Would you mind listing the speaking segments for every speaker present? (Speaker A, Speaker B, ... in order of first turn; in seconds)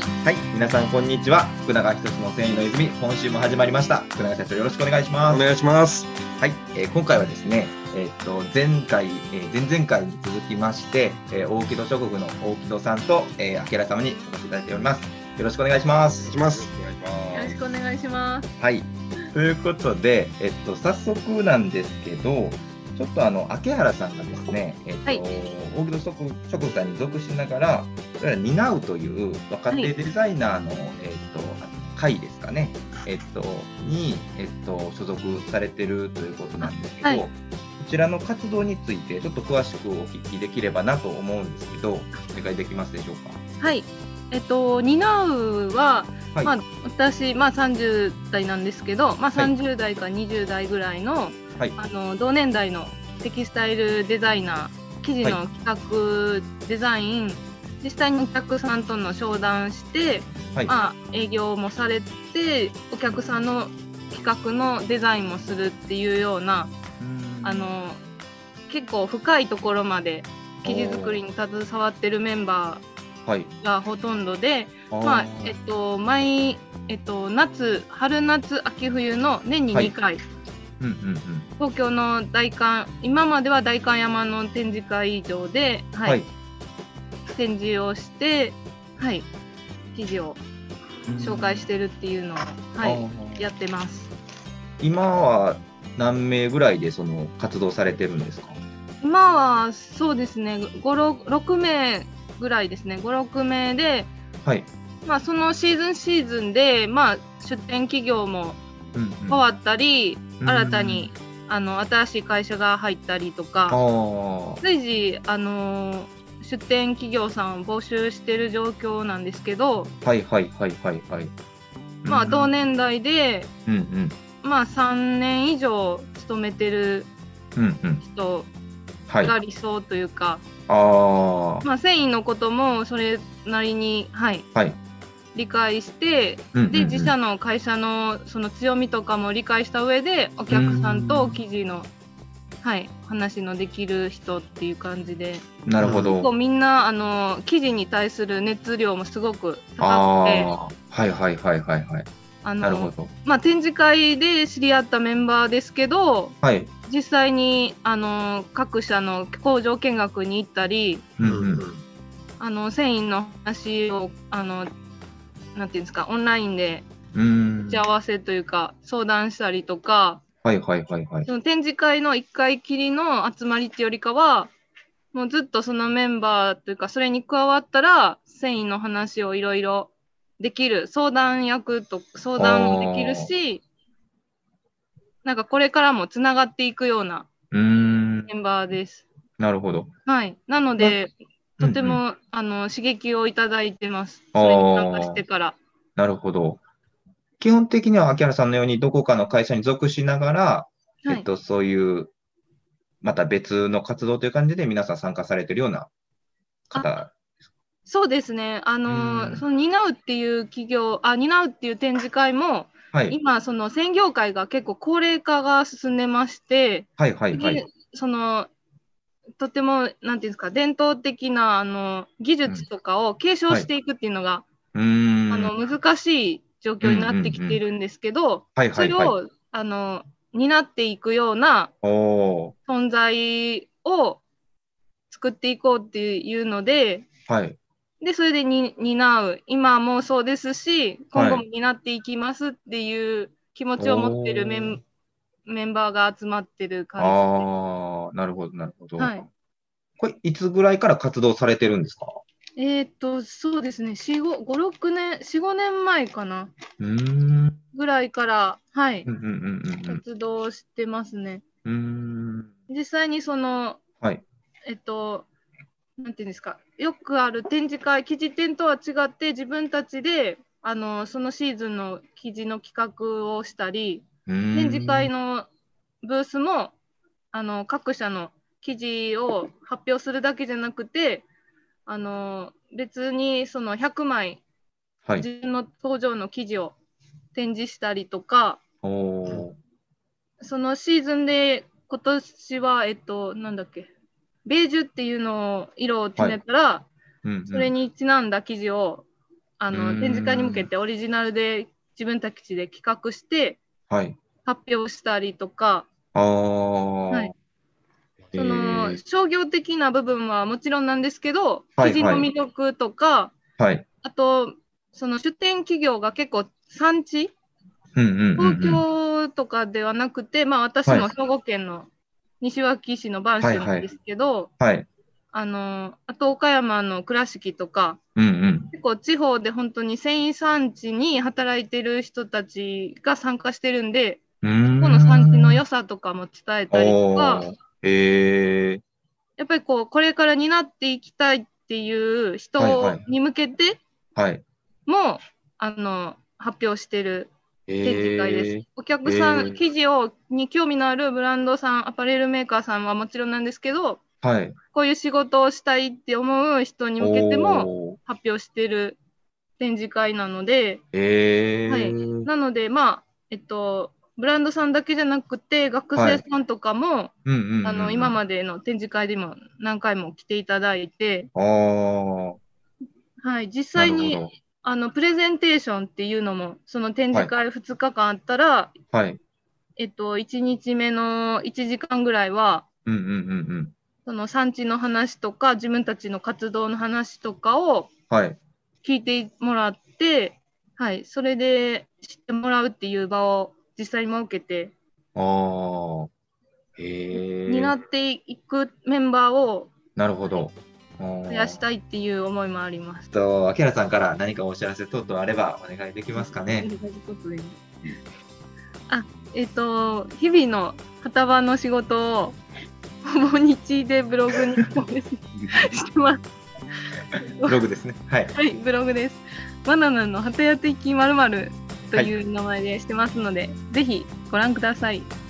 Speaker A: 0.2-5.5, 6.4-16.6, 18.6-43.4, 67.0-67.8, 70.6-71.2, 73.2-73.5, 74.9-75.5, 80.8-81.5, 91.0-91.7, 92.8-93.5, 94.8-98.6, 108.9-109.4, 110.4-111.1, 113.7-114.6, 120.0-121.3, 122.0-122.5, 123.7-124.2, 127.5-128.0, 129.1-129.3, 130.7-131.7, 136.5-137.1, 140.5-141.4, 145.7-146.3, 149.8-152.1, 152.6-153.1, 156.4-156.7, 161.2-161.6, 167.1-167.8, 170.4-171.3, 182.4-183.3, 187.5-188.3, 189.4-189.9, 191.6-192.0, 194.3-195.2, 196.0-196.6, 197.4-202.1, 203.0-205.9, 206.7-207.1, 208.8-209.4, 212.9-213.2, 217.0-217.6, 224.7-225.5, 226.8-227.6, 228.6-229.1, 231.8-232.5, 237.3-237.6, 241.1-241.4, 243.8-244.8, 247.0-249.2, 250.0-252.2, 256.8-257.6, 259.0-260.0, 261.6-262.5, 274.2-275.1, 288.8-289.6, 297.2-297.7, 299.7-300.7, 303.9-304.2, 306.1-307.3, 308.3-309.0, 311.8-312.3, 313.6-313.9, 317.9-318.8, 323.4-323.9, 324.6-324.9, 328.1-328.7, 334.4-335.6, 336.7-338.8, 342.6-343.0, 344.1-344.4, 347.7-349.6, 354.2-354.6, 357.0-358.0, 360.9-362.3, 365.9-366.2, 367.2-368.2, 371.3-372.4, 373.7-374.3, 378.9-379.2, 382.9-383.7, 388.1-388.4, 395.1-396.1, 396.8-397.8, 399.9-401.6, 403.1-406.7, 417.4-418.3
Speaker B: 5.2-6.1, 16.1-17.6, 161.2-161.8
Speaker C: 17.3-18.5, 36.6-37.2, 43.6-66.7, 67.4-68.0, 68.7-72.8, 73.6-80.2, 81.6-86.2, 87.3-89.3, 89.9-90.4, 91.2-94.1, 99.0-104.1, 105.0-108.6, 109.3-113.8, 114.6-119.9, 122.0-123.5, 124.4-127.1, 128.0-128.5, 129.2-130.4, 131.6-134.4, 135.3-141.9, 142.6-145.5, 146.1-150.5, 152.4-161.0, 162.4-164.7, 165.5-166.8, 167.6-170.2, 171.2-174.5, 175.1-183.6, 185.2-187.3, 188.3-189.0, 190.1-195.6, 207.8-218.5, 219.4-224.4, 225.3-231.7, 232.6-234.2, 235.1-237.1, 238.0-244.8, 245.4-247.5, 249.0-249.2, 252.6-256.5, 257.7-259.1, 259.9-261.4, 262.7-263.8, 264.6-265.3, 266.0-275.5, 276.0-276.7, 277.3-281.2, 281.9-284.4, 285.2-286.7, 287.3-288.6, 290.4-293.9, 294.4-296.9, 297.5-299.1, 299.6-303.6, 304.4-305.9, 308.3-313.3, 314.0-317.3, 318.4-321.9, 322.4-324.5, 325.3-328.0, 328.7-334.2, 334.8-337.4, 339.4-343.8, 344.9-347.3, 347.8-354.0, 354.7-359.0, 359.6-360.8, 361.7-371.3, 373.2-378.7, 379.8-382.6, 384.0-387.9, 388.8-394.7, 397.1-399.7, 401.3-403.1, 406.6-407.6, 408.9-412.4, 413.0-416.2, 417.2-417.6, 418.3-425.1